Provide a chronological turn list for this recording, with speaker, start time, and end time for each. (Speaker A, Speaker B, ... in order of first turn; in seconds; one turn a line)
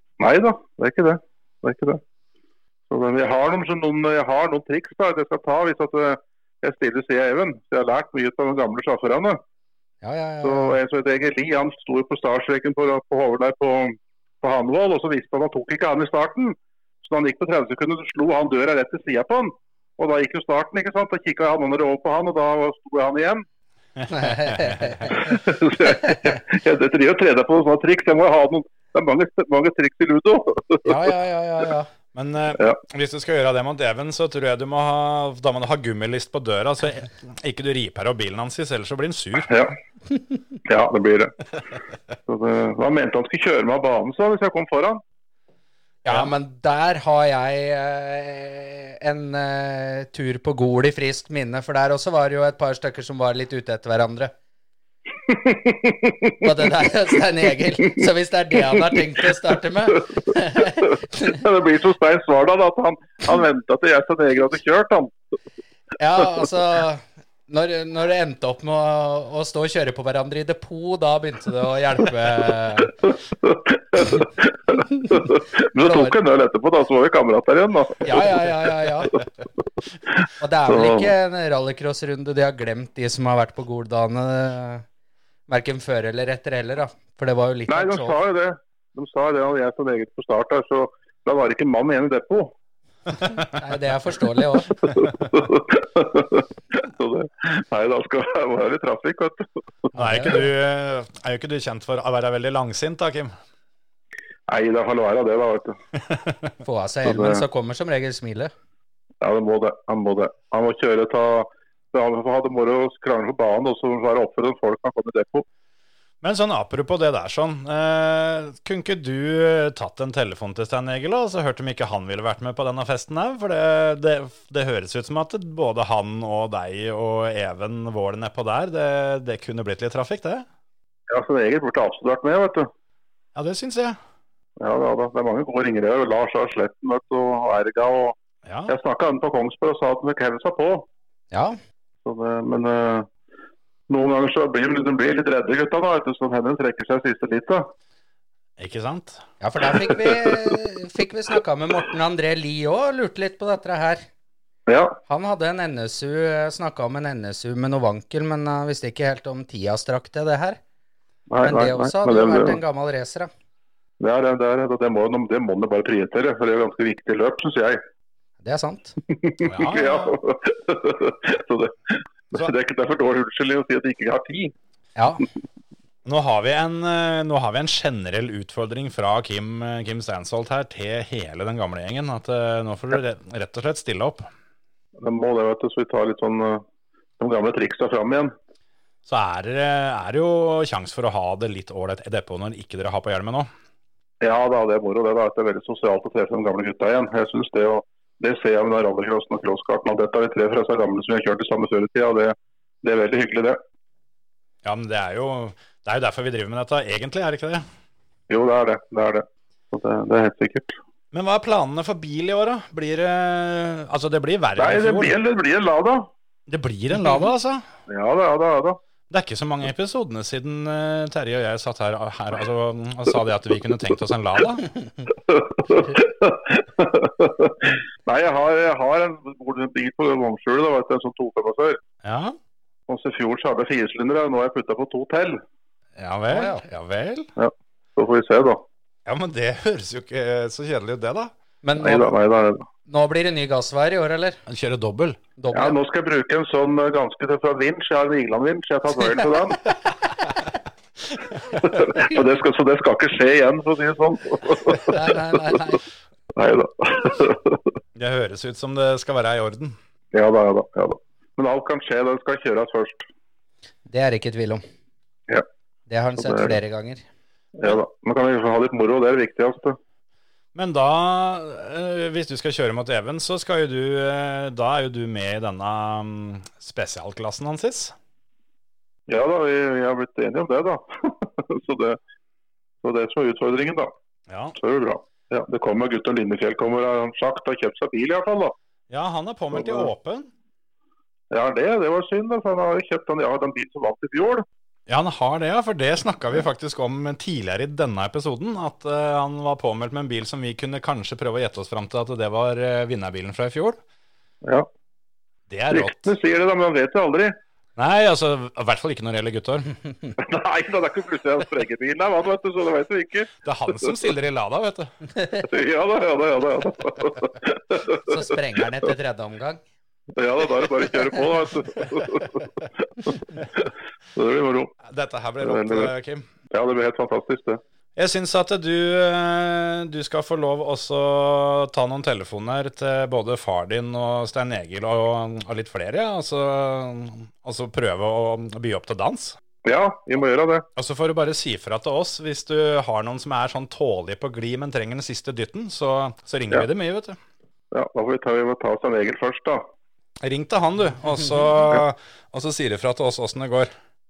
Speaker A: 0.2-2.0
Speaker A: 2.9-9.4
Speaker B: 10.0-10.8
Speaker A: 10.4-23.5
Speaker B: 24.1-25.1
Speaker C: 24.2-25.0
Speaker A: 25.0-30.9
Speaker B: 30.9-31.9
Speaker C: 32.1-39.5
Speaker A: 39.4-39.8
Speaker A: 40.6-41.4
Speaker A: 42.3-45.0
Speaker B: 46.0-54.3
Speaker C: 46.1-46.3
Speaker A: 55.3-56.4
Speaker B: 56.4-61.3
Speaker A: 60.6-65.1
Speaker B: 66.0-72.9
Speaker A: 73.0-78.6
Speaker B: 75.8-76.1
Speaker B: 78.0-79.2
Speaker B: 80.4-84.8
Speaker A: 80.7-81.1
Speaker B: 85.5-88.2
Speaker A: 87.7-92.5
Speaker B: 93.5-94.8
Speaker A: 94.7-99.9
Speaker B: 99.9-100.4
Speaker C: 100.0-103.3
Speaker A: 104.5-105.8
Speaker B: 106.6-108.5
Speaker A: 107.0-107.4
Speaker A: 109.2-115.5
Speaker C: 116.2-130.5
Speaker A: 131.1-132.7
Speaker C: 133.4-134.0
Speaker A: 134.6-138.2
Speaker C: 138.5-138.7
Speaker A: 138.7-140.9
Speaker B: 141.3-141.6
Speaker A: 142.0-143.1
Speaker A: 143.9-147.7
Speaker C: 148.6-149.2
Speaker B: 149.4-154.0
Speaker A: 154.7-155.0
Speaker B: 155.1-160.6
Speaker A: 161.3-162.6
Speaker B: 161.4-163.3
Speaker A: 164.0-167.8
Speaker B: 168.4-169.0
Speaker A: 169.1-174.5
Speaker C: 169.4-170.1
Speaker B: 175.0-175.2
Speaker C: 176.1-184.3
Speaker A: 185.0-186.6
Speaker A: 187.2-188.3
Speaker C: 189.1-193.5
Speaker A: 194.2-203.6
Speaker C: 204.6-207.6
Speaker A: 208.3-210.8
Speaker C: 211.1-215.2
Speaker A: 214.6-216.1
Speaker C: 216.5-217.7
Speaker A: 217.9-218.8
Speaker C: 219.1-224.7
Speaker A: 225.3-231.8
Speaker C: 232.0-232.4
Speaker A: 232.9-235.4
Speaker C: 236.0-237.3
Speaker B: 236.3-236.6
Speaker A: 237.4-238.6
Speaker C: 239.1-241.3
Speaker B: 241.6-242.1
Speaker A: 241.8-242.7
Speaker B: 242.9-244.4
Speaker C: 244.5-245.2
Speaker B: 245.4-245.8
Speaker A: 245.5-249.7
Speaker A: 251.5-255.0
Speaker B: 254.9-255.8
Speaker A: 256.4-257.6
Speaker C: 257.9-259.8
Speaker A: 260.1-263.1
Speaker B: 263.9-264.6
Speaker B: 265.9-267.0
Speaker A: 266.2-266.6
Speaker A: 267.6-269.8
Speaker C: 270.6-277.9
Speaker A: 279.1-282.0
Speaker A: 282.8-283.9
Speaker C: 284.3-284.6
Speaker A: 284.6-288.6
Speaker C: 288.9-290.3
Speaker A: 289.6-289.9
Speaker A: 291.3-294.5
Speaker C: 294.9-303.8
Speaker C: 305.5-306.1
Speaker A: 305.7-307.4
Speaker C: 307.8-309.7
Speaker A: 310.2-313.3
Speaker C: 313.4-314.9
Speaker A: 315.4-318.1
Speaker B: 318.1-319.6
Speaker A: 320.2-324.7
Speaker C: 324.8-326.2
Speaker A: 325.4-325.9
Speaker A: 326.5-327.6
Speaker C: 328.0-339.4
Speaker A: 339.6-340.7
Speaker C: 340.8-347.2
Speaker A: 347.7-349.6
Speaker C: 350.2-353.7